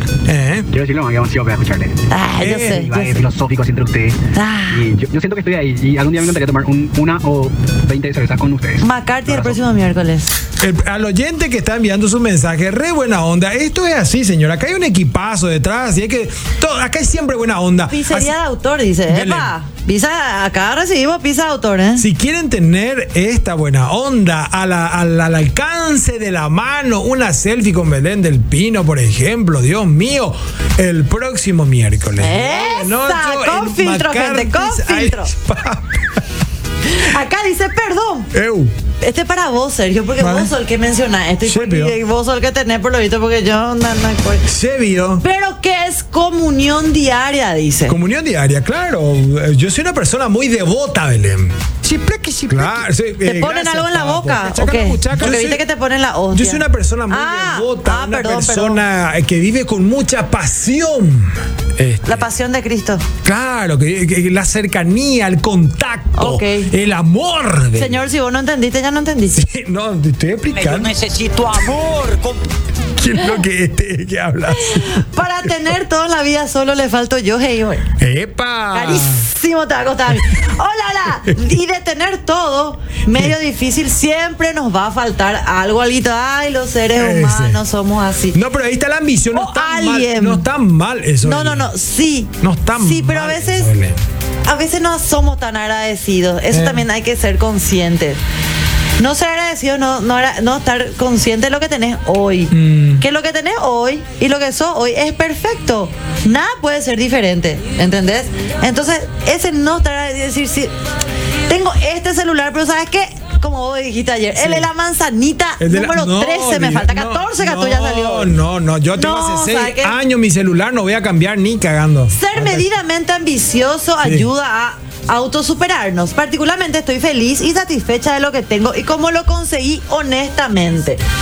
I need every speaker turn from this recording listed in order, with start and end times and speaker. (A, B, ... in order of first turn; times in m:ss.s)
0:00.3-0:00.7 A
0:00.7-0:09.6 B
0:02.1-0:03.3 C
0:02.4-0:02.9 A
0:04.3-0:04.9 C
0:08.8-0:10.3 C
0:10.6-0:18.4 A
0:17.9-0:22.1 C
0:19.1-0:19.6 A
0:22.0-0:36.2 A
0:32.2-0:35.3 C
0:36.8-0:38.3 C
0:38.3-0:38.8 A
0:39.0-0:44.5 C
0:40.2-0:40.5 A
0:41.4-0:42.0 A
0:44.5-0:45.2 A
0:45.2-0:48.0 C
0:47.9-0:55.6 A
0:52.5-0:58.8 C
0:56.3-1:02.3 A
1:02.0-1:03.1 C
1:03.2-1:08.1 A
1:06.2-1:06.7 C
1:07.8-1:09.4 C
1:09.3-1:11.0 A
1:10.5-1:12.4 D
1:13.0-1:15.0 A
1:14.5-1:17.9 C
1:18.0-1:19.3 A
1:18.7-1:28.4 C
1:27.0-1:27.6 A
1:28.3-1:31.7 A
1:29.3-1:30.5 C
1:31.2-1:33.7 C
1:32.4-1:34.0 A
1:34.4-1:38.2 C
1:36.5-1:36.8 A
1:39.0-1:50.7 C
1:42.5-1:43.0 A
1:51.5-1:58.4 C
1:54.4-1:54.7 A
1:55.6-2:02.7 A
1:59.0-2:00.0 C
2:02.1-2:11.0 C
2:04.0-2:04.3 A